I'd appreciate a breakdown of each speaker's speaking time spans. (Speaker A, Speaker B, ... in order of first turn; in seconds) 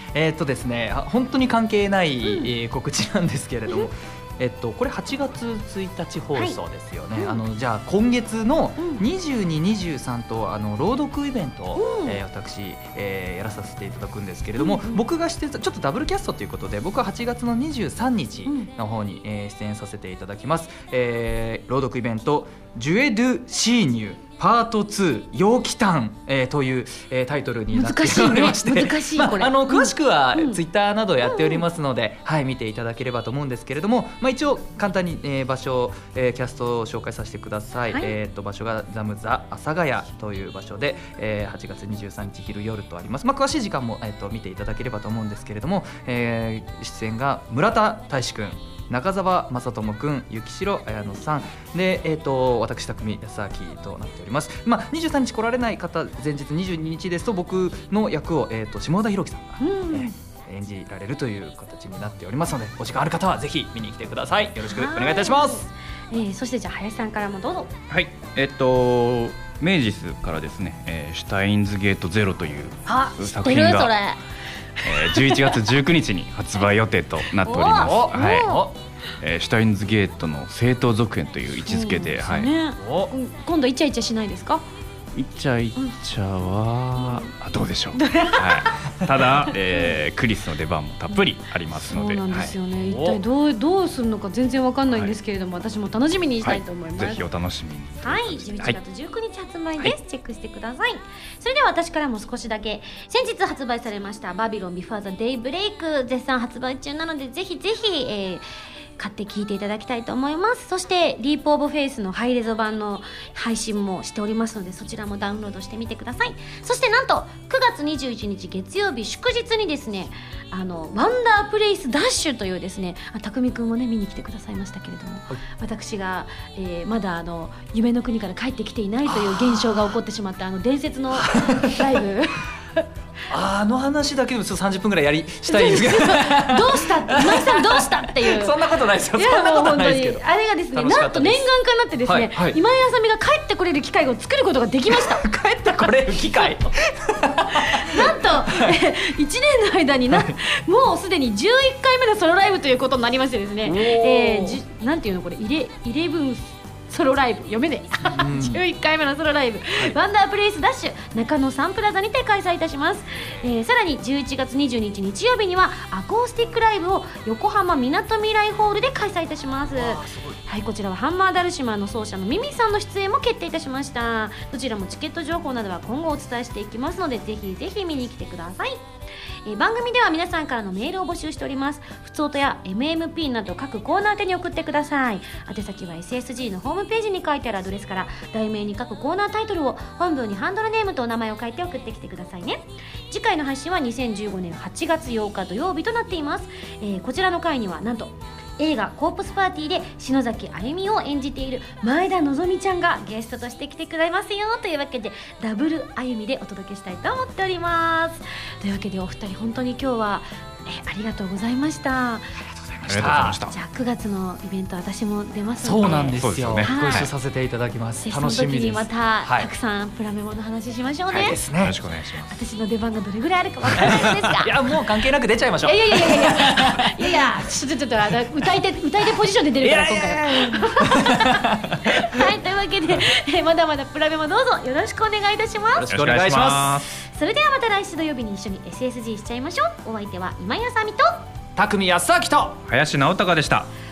Speaker A: 0.1-65.7, 77.8-78.7, 82.8-83.1, 92.8-93.2, 129.1-129.9, 131.1-131.8, 133.3-141.4, 142.0-142.6, 144.9-148.8, 150.1-150.4, 153.6-154.6, 158.1-158.6, 169.7-170.4, 212.6-213.4, 215.6-219.5, 221.1-221.8, 223.8-227.2, 229.6-232.3, 235.8-236.8, 241.6-242.6
Speaker B: 2.2-2.5, 7.1-7.4, 11.8-12.2, 14.6-15.0, 27.7-30.6, 31.2-31.6, 59.6-60.1, 64.7-67.7, 72.9-74.2, 74.8-75.5, 77.4-78.6, 81.7-84.6, 87.0-87.3, 88.0-88.9, 91.8-97.3, 98.0-108.5, 109.0-132.8, 135.5-138.6, 139.2-145.2, 146.1-146.5, 147.6-178.8, 179.4-212.4, 213.5-217.1, 218.0-221.4, 222.3-224.6, 225.6-235.9, 237.1-241.2
Speaker C: 67.9-74.0, 74.8-78.6, 79.2-82.5, 85.1-92.5, 96.4-98.8, 212.9-213.5, 216.1-217.1, 221.1-222.4, 223.7-224.1, 235.9-237.0, 242.7-243.7